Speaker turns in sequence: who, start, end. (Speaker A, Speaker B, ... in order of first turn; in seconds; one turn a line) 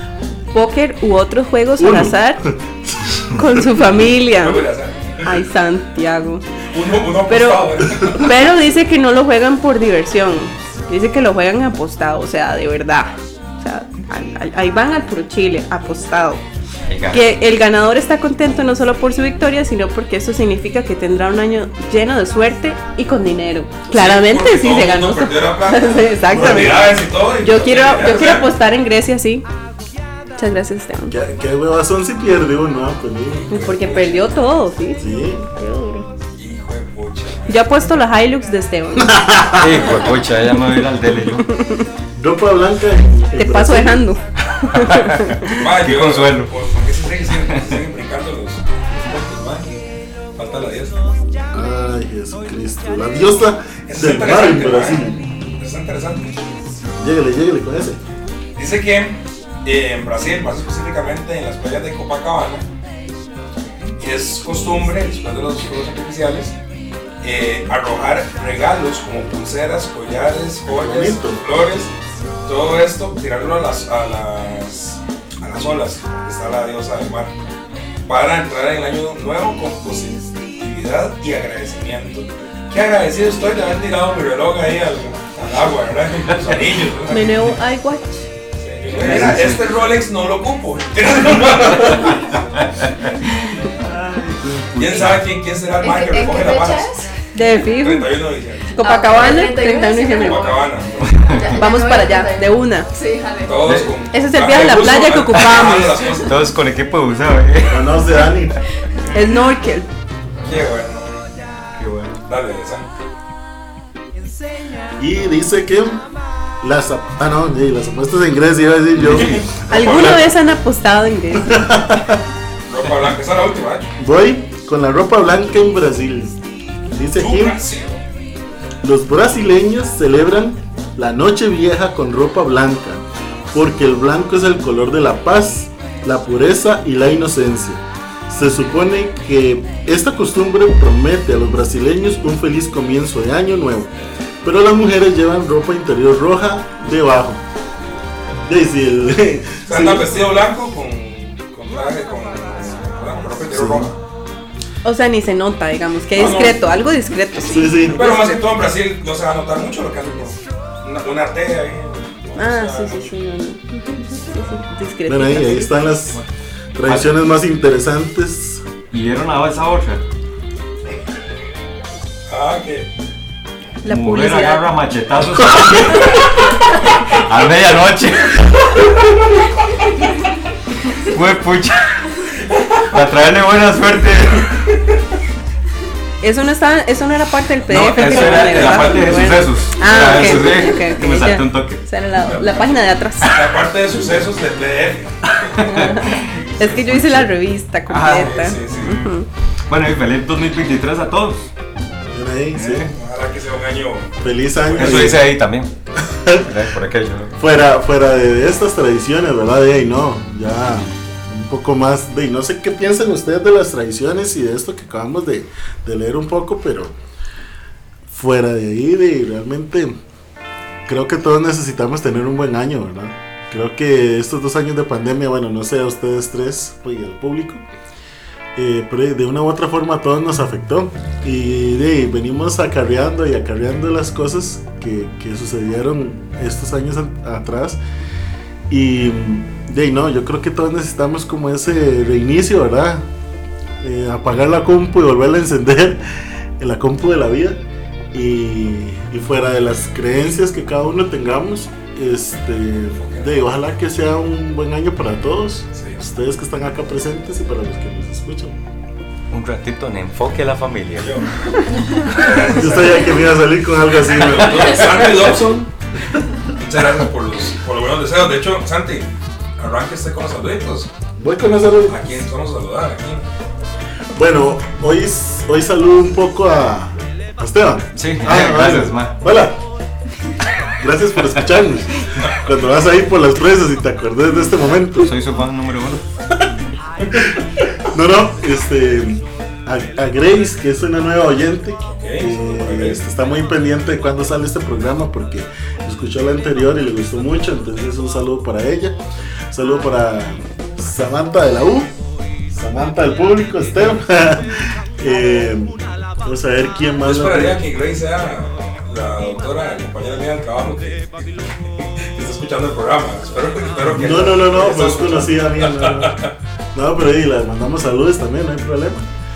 Speaker A: 0.5-2.4
Speaker B: 1.8-3.7
Speaker A: 3.3-4.7
Speaker C: 4.3-5.4
Speaker A: 5.2-6.4
Speaker C: 6.7-8.3
Speaker A: 7.3-16.4
Speaker D: 16.9-17.2
Speaker A: 17.1-29.4
Speaker C: 23.9-28.5
Speaker B: 26.3-26.7
Speaker A: 30.4-31.1
Speaker B: 31.1-33.6
Speaker C: 33.3-34.4
Speaker A: 33.5-36.1
Speaker B: 35.0-35.5
Speaker C: 36.4-37.9
Speaker A: 37.5-39.2
Speaker B: 39.0-39.9
Speaker D: 39.5-41.6
Speaker A: 41.5-41.8
Speaker B: 42.2-44.0
Speaker A: 43.4-45.6
Speaker D: 44.7-46.5
Speaker C: 45.4-49.7
Speaker C: 50.4-50.9
Speaker B: 51.5-55.2
Speaker C: 53.9-56.4
Speaker B: 57.0-58.0
Speaker C: 58.5-62.7
Speaker C: 63.8-66.5
Speaker C: 67.2-71.9
Speaker B: 70.7-71.4
Speaker C: 72.4-77.3
Speaker C: 78.0-87.5
Speaker A: 87.1-88.3
Speaker C: 88.6-92.4
Speaker D: 88.9-89.6
Speaker D: 92.6-95.2
Speaker C: 94.8-96.9
Speaker E: 95.8-97.1
Speaker A: 97.3-98.2
Speaker C: 97.7-99.3
Speaker A: 98.7-100.6
Speaker E: 98.8-103.6
Speaker C: 100.2-101.2
Speaker D: 101.0-101.6
Speaker A: 101.5-102.9
Speaker C: 103.4-106.4
Speaker D: 103.6-103.9
Speaker A: 104.1-106.1
Speaker D: 105.3-108.4
Speaker B: 107.7-108.6
Speaker A: 109.1-109.9
Speaker C: 110.4-111.2
Speaker D: 111.8-112.2
Speaker C: 112.2-112.9
Speaker B: 115.0-116.0
Speaker B: 116.6-120.1
Speaker D: 118.9-119.5
Speaker C: 119.0-120.3
Speaker A: 119.7-121.7
Speaker B: 121.3-122.2
Speaker C: 122.7-123.9
Speaker B: 124.0-126.4
Speaker B: 126.9-127.6
Speaker C: 127.2-128.0
Speaker B: 128.8-143.9
Speaker B: 144.4-147.4
Speaker B: 148.4-150.1
Speaker C: 149.7-154.0
Speaker B: 153.5-153.9
Speaker A: 154.8-158.4
Speaker C: 156.1-156.6
Speaker B: 157.4-158.0
Speaker C: 157.8-163.1
Speaker A: 162.4-165.8
Speaker B: 165.1-166.2
Speaker B: 166.7-168.6
Speaker D: 166.9-167.1
Speaker D: 168.9-170.0
Speaker C: 172.3-172.9
Speaker A: 173.8-174.7
Speaker D: 173.9-179.2
Speaker D: 180.9-182.2
Speaker D: 182.8-184.6
Speaker A: 186.2-193.3
Speaker D: 187.7-191.8
Speaker C: 187.9-189.4
Speaker C: 192.2-192.7
Speaker C: 193.2-195.7
Speaker D: 195.4-197.3
Speaker A: 195.6-199.3
Speaker C: 196.2-196.8
Speaker D: 197.9-199.1
Speaker C: 198.0-199.1
Speaker D: 199.7-201.5
Speaker B: 202.1-202.9
Speaker D: 202.6-202.9
Speaker C: 202.9-205.2
Speaker B: 204.2-205.2
Speaker D: 204.8-205.7
Speaker B: 206.0-206.6
Speaker D: 206.3-207.3
Speaker B: 207.4-216.9
Speaker B: 218.1-219.9
Speaker B: 220.9-227.6
Speaker B: 228.6-237.8
Speaker B: 238.7-243.1
Speaker B: 243.8-247.6
Speaker B: 248.1-258.6
Speaker C: 253.0-253.4
Speaker C: 255.7-256.0
Speaker D: 259.3-261.2
Speaker C: 261.0-263.3
Speaker B: 262.5-265.0
Speaker C: 264.0-265.7
Speaker C: 266.6-270.9
Speaker B: 271.2-272.1
Speaker C: 271.9-273.3
Speaker B: 274.1-279.6
Speaker D: 277.9-279.1
Speaker B: 280.8-285.1
Speaker D: 284.9-286.0
Speaker B: 287.1-299.0
Speaker C: 291.9-293.0
Speaker B: 299.5-301.9
Speaker B: 302.5-307.6
Speaker C: 307.0-316.3
Speaker B: 313.9-319.1